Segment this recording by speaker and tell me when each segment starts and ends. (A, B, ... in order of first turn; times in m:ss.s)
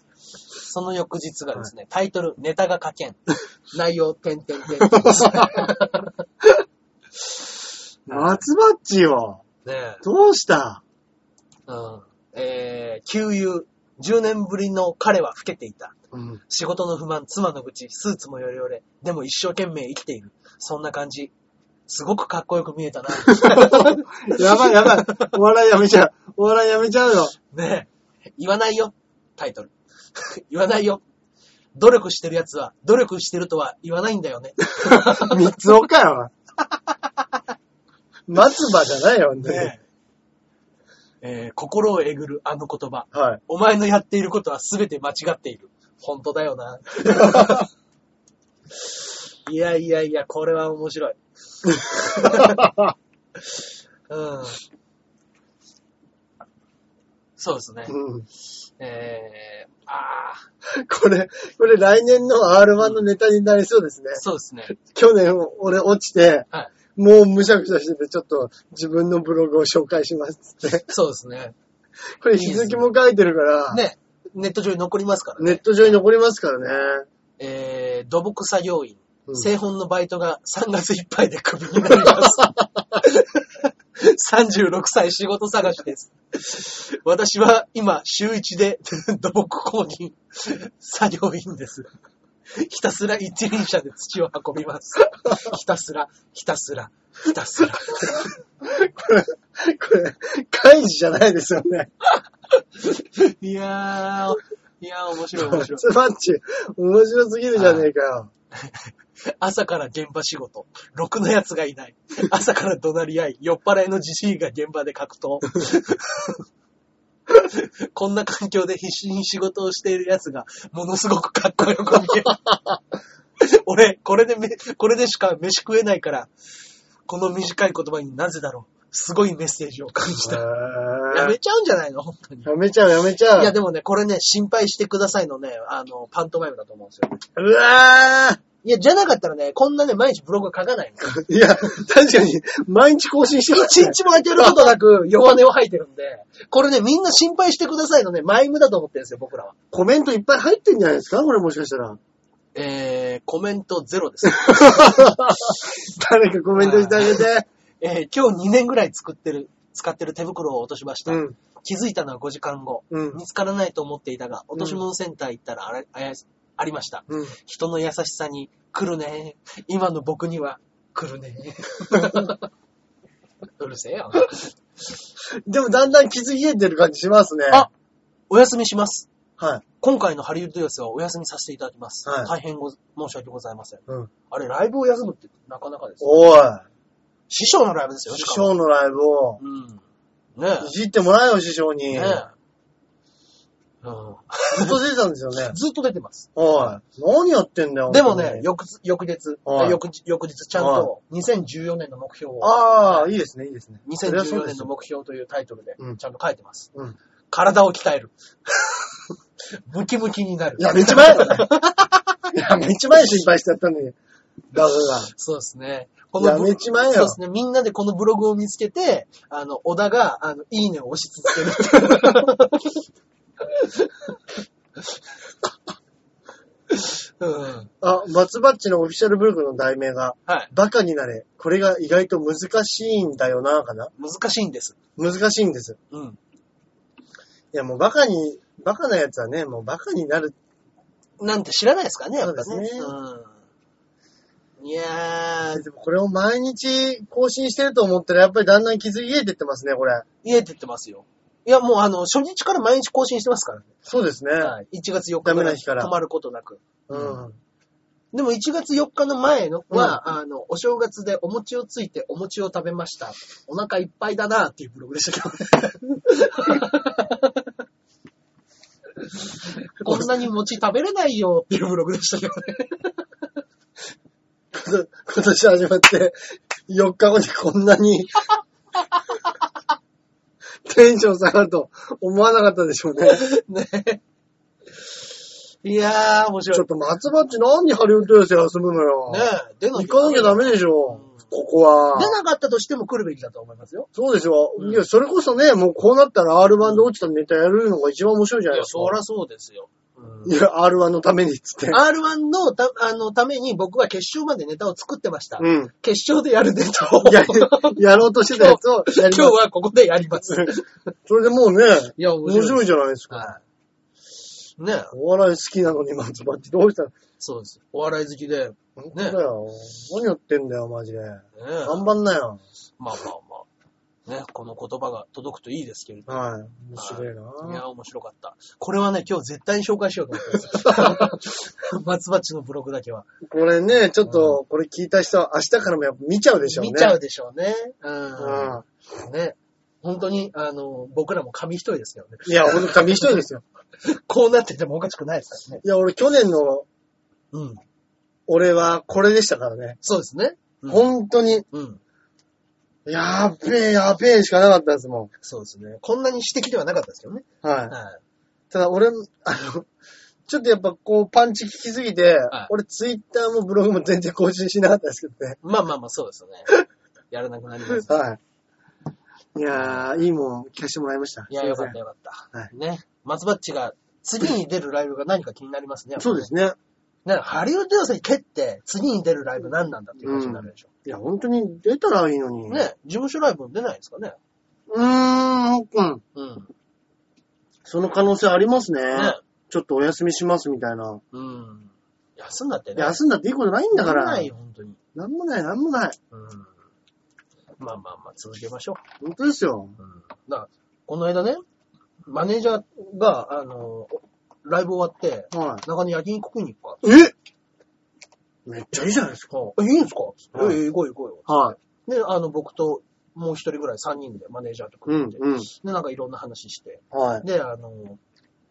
0:00.6-0:03.2 A
0:03.7-0:06.2 A
0:04.8-0:05.7 B
0:08.1-0:09.4 B
0:08.1-0:08.4 A
0:09.6-0:10.0 A
0:10.0-0:10.8 B
0:11.7-0:16.0 A
0:16.1-0:16.4 B
0:16.5-0:21.3 A
0:21.9-0:25.4 A
0:23.2-0:27.3 B
0:27.5-0:31.0 A
0:31.8-0:35.6 A
0:34.8-0:36.3 B
0:38.3-0:39.7 B
0:39.4-0:39.8 A
0:41.2-0:47.7 A
0:43.1-0:43.4 B
0:47.0-0:47.6 B
0:48.8-0:52.7 A
0:51.9-0:52.9 B
0:54.1-0:54.6 A
0:57.4-0:58.0 A
0:57.9-0:58.3 B
0:58.8-1:00.5 A
1:00.7-1:04.2 B
1:04.2-1:04.8 A
1:04.8-1:10.9 B
1:10.9-1:11.6 A
1:12.2-1:13.8 B
1:12.4-1:12.9 A
1:13.7-1:16.0 A
1:15.4-1:17.1 B
1:17.4-1:31.9 A
1:22.0-1:22.3 B
1:32.6-1:38.3 A
1:38.0-1:41.9 B
1:42.5-1:45.9 A
1:45.3-1:48.3 B
1:47.6-1:47.9 A
1:48.6-1:56.4 A
1:57.3-2:02.5 A
2:03.4-2:06.3 A
2:07.1-2:10.5 A
2:10.2-2:11.4 B
2:11.1-2:12.5 A
2:12.4-2:13.5 B
2:13.4-2:17.2 A
2:17.4-2:18.4 B
2:18.6-2:21.2 A
2:21.0-2:24.8 B
2:23.5-2:29.6 A
2:29.7-2:32.0 B
2:32.5-2:35.5 A
2:34.2-2:37.5 B
2:36.6-2:37.2 A
2:37.8-2:52.5 A
2:41.1-2:41.4 B
2:42.9-2:43.2 B
2:44.6-2:44.8 B
2:47.1-2:47.3 B
2:53.6-2:54.6 A
2:55.5-2:57.7 B
2:58.3-2:59.1 A
2:59.4-2:59.6 B
2:59.8-3:06.2 A
3:02.0-3:02.3 B
3:06.0-3:06.6 B
3:07.3-3:08.5 A
3:08.1-3:09.4 B
3:09.4-3:09.8 A
3:10.4-3:10.7 A
3:10.6-3:12.2 B
3:11.9-3:12.3 A
3:13.8-3:14.8 A
3:14.5-3:15.6 B
3:15.4-3:16.8 A
3:16.4-3:18.5 B
3:17.9-3:23.1 A
3:19.5-3:19.8 B
3:20.6-3:20.9 B
3:22.4-3:24.7 B
3:23.8-3:26.7 A
3:27.3-3:32.3 A
3:30.6-3:31.5 B
3:32.3-3:34.0 B
3:34.5-3:35.1 B
3:35.1-3:42.8 A
3:36.2-3:37.2 B
3:43.5-3:44.2 A
3:46.7-3:47.7 A
3:47.8-3:53.9 B
3:54.0-3:54.8 A
3:55.0-3:55.8 B
3:55.9-3:56.2 A
3:57.5-4:00.4 B
4:01.2-4:03.3 A
4:02.2-4:02.9 B
4:04.6-4:05.6 A
4:05.5-4:10.0 B
4:10.2-4:13.7 A
4:13.8-4:14.5 B
4:14.4-4:17.2 A
4:15.2-4:15.9 B
4:16.9-4:17.4 B
4:18.1-4:27.4 A
4:19.7-4:20.0 B
4:29.2-4:33.0 A
4:29.8-4:30.1 B
4:34.5-4:38.3 B
4:40.6-4:43.3 B
4:43.0-4:44.0 A
4:45.6-4:46.7 A
4:46.5-4:52.2 B
4:49.1-4:51.2 A
4:52.0-4:53.9 A
4:54.0-4:59.0 B
4:54.6-4:54.8 A
4:58.5-5:00.4 A
5:00.2-5:01.8 B
5:01.7-5:10.7 A
5:05.4-5:05.7 B
5:07.0-5:09.4 B
5:10.3-5:13.3 B
5:12.0-5:13.4 A
5:14.6-5:14.9 A
5:14.9-5:16.9 B
5:17.2-5:19.2 A
5:18.8-5:22.4 B
5:21.4-5:21.9 A
5:22.8-5:23.5 A
5:24.1-5:26.1 A
5:26.1-5:27.6 B
5:26.8-5:33.1 A
5:30.6-5:31.1 B
5:33.2-5:37.0 B
5:34.0-5:34.4 A
5:36.4-5:43.2 A
5:38.2-5:38.6 B
5:42.3-5:43.4 B
5:43.8-5:45.6 A
5:45.6-5:46.7 B
5:47.3-5:47.6 A
5:48.3-5:49.8 B
5:49.8-5:50.9 A
5:50.7-5:51.4 B
5:51.5-5:51.8 A
5:52.9-5:55.1 B
5:55.2-5:58.0 A
5:57.4-5:57.8 B
5:58.5-5:59.7 B
6:00.3-6:05.4 B
6:05.4-6:06.5 A
6:07.1-6:08.0 A
6:07.7-6:08.2 B
6:09.4-6:11.8 B
6:09.5-6:10.0 A
6:11.3-6:16.3 A
6:16.0-6:16.6 B
6:17.0-6:20.7 A
6:20.0-6:22.6 B
6:22.5-6:24.2 A
6:24.7-6:26.0 B
6:26.2-6:26.5 A
6:27.6-6:31.0 B
6:28.9-6:29.2 A
6:31.1-6:33.0 A
6:32.8-6:34.3 B
6:33.7-6:34.8 A
6:35.0-6:36.0 B
6:36.1-6:36.5 A
6:37.6-6:38.8 A
6:39.0-6:39.8 B
6:39.8-6:41.4 A
6:42.1-6:46.8 A
6:45.3-6:45.6 B
6:46.8-6:47.1 B
6:48.5-6:49.3 B
6:49.3-6:58.0 A
6:50.3-6:50.6 B
6:51.3-6:51.6 B
6:54.9-6:55.5 B
6:56.9-6:57.2 B